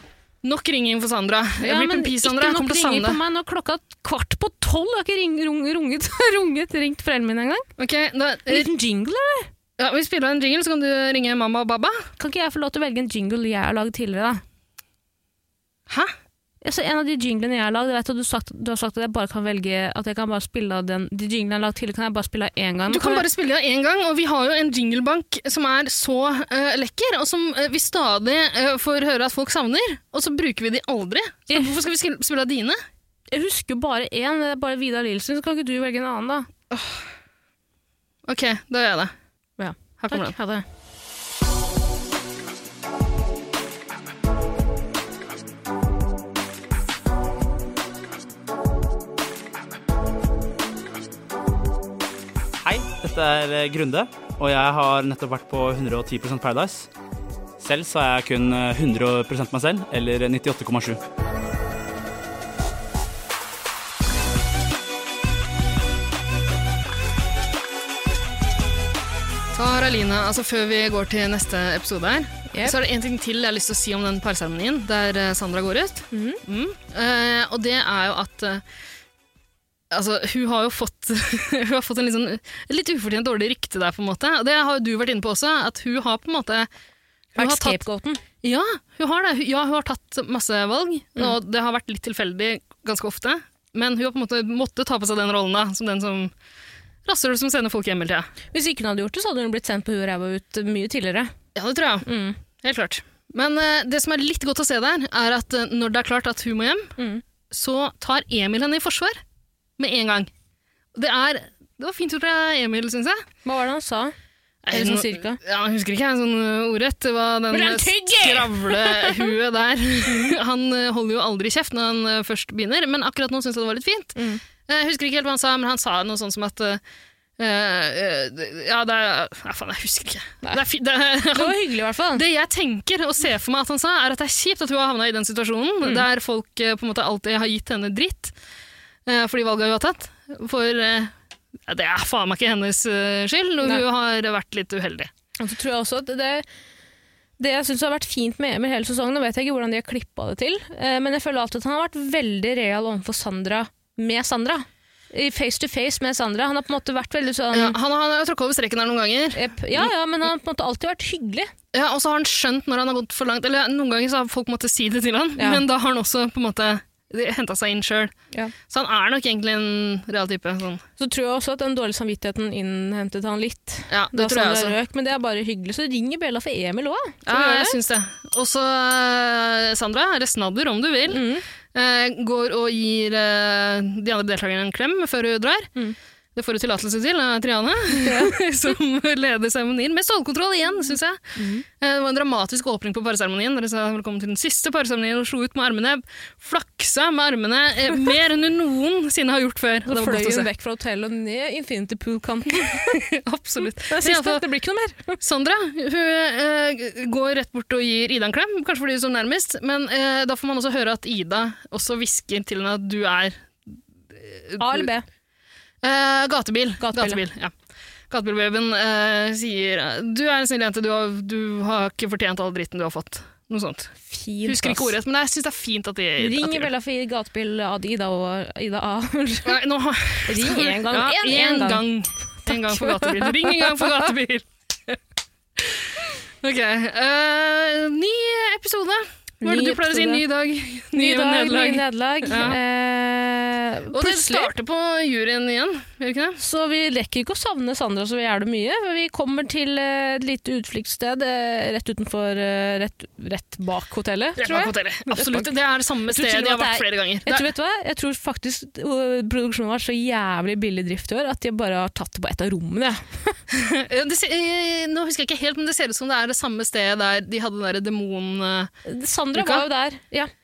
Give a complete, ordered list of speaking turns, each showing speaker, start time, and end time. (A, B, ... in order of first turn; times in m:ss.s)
0:00.4-0:03.2 A
0:01.6-0:07.6 B
0:07.8-0:08.7 A
0:08.5-0:09.5 B
0:09.8-0:12.1 A
0:12.2-0:14.4 B
0:16.6-0:23.2 B
0:22.9-0:32.8 A
0:33.3-0:36.5 B
0:36.7-0:37.0 A
0:38.2-0:39.1 A
0:39.6-0:40.6 B
0:40.0-0:40.4 A
0:52.6-0:56.9 C
0:57.6-1:01.0 C
1:09.5-1:18.6 A
1:12.5-1:12.8 B
1:16.1-1:16.4 B
1:19.9-1:26.7 A
1:27.3-1:27.8 A
1:27.4-1:28.2 B
1:28.4-1:36.3 A
1:37.0-1:38.3 A
1:38.5-1:41.3 B
1:41.5-1:46.9 A
1:42.0-1:42.4 B
1:47.0-1:47.2 B
1:47.5-1:49.2 A
1:49.8-1:50.3 A
1:50.9-1:53.2 A
1:53.4-1:54.1 B
1:54.6-2:06.8 A
1:54.7-1:55.4 B
1:57.5-1:59.3 B
2:00.1-2:00.3 B
2:04.2-2:04.4 B
2:07.4-2:18.3 A
2:11.3-2:12.2 B
2:19.0-2:21.1 A
2:21.7-2:25.1 A
2:25.4-2:26.4 B
2:27.4-2:37.8 B
2:37.5-2:39.9 A
2:39.3-2:41.5 B
2:41.7-2:48.1 A
2:45.4-2:45.6 B
2:48.7-2:50.8 A
2:51.0-2:57.8 B
2:53.9-2:54.8 A
2:57.2-3:05.7 A
3:01.1-3:01.4 B
3:06.3-3:20.5 A
3:07.9-3:08.4 B
3:11.4-3:11.6 B
3:19.8-3:23.0 B
3:22.6-3:24.4 A
3:23.9-3:25.2 B
3:25.2-3:33.5 A
3:34.1-3:34.9 A
3:34.6-3:35.0 B
3:35.8-3:37.5 A
3:36.8-3:37.2 B
3:38.1-3:43.9 A
3:44.1-3:44.9 B
3:44.4-3:46.7 A
3:46.2-3:49.6 B
3:49.4-3:55.0 A
3:50.2-3:51.8 B
3:52.4-3:53.9 B
3:55.6-4:02.6 A
3:59.4-4:00.2 B
4:00.9-4:04.5 B
4:03.9-4:06.4 A
4:06.4-4:15.5 B
4:14.4-4:17.5 A
4:16.1-4:23.3 B
4:23.5-4:28.7 A
4:28.8-4:30.3 B
4:29.3-4:29.6 A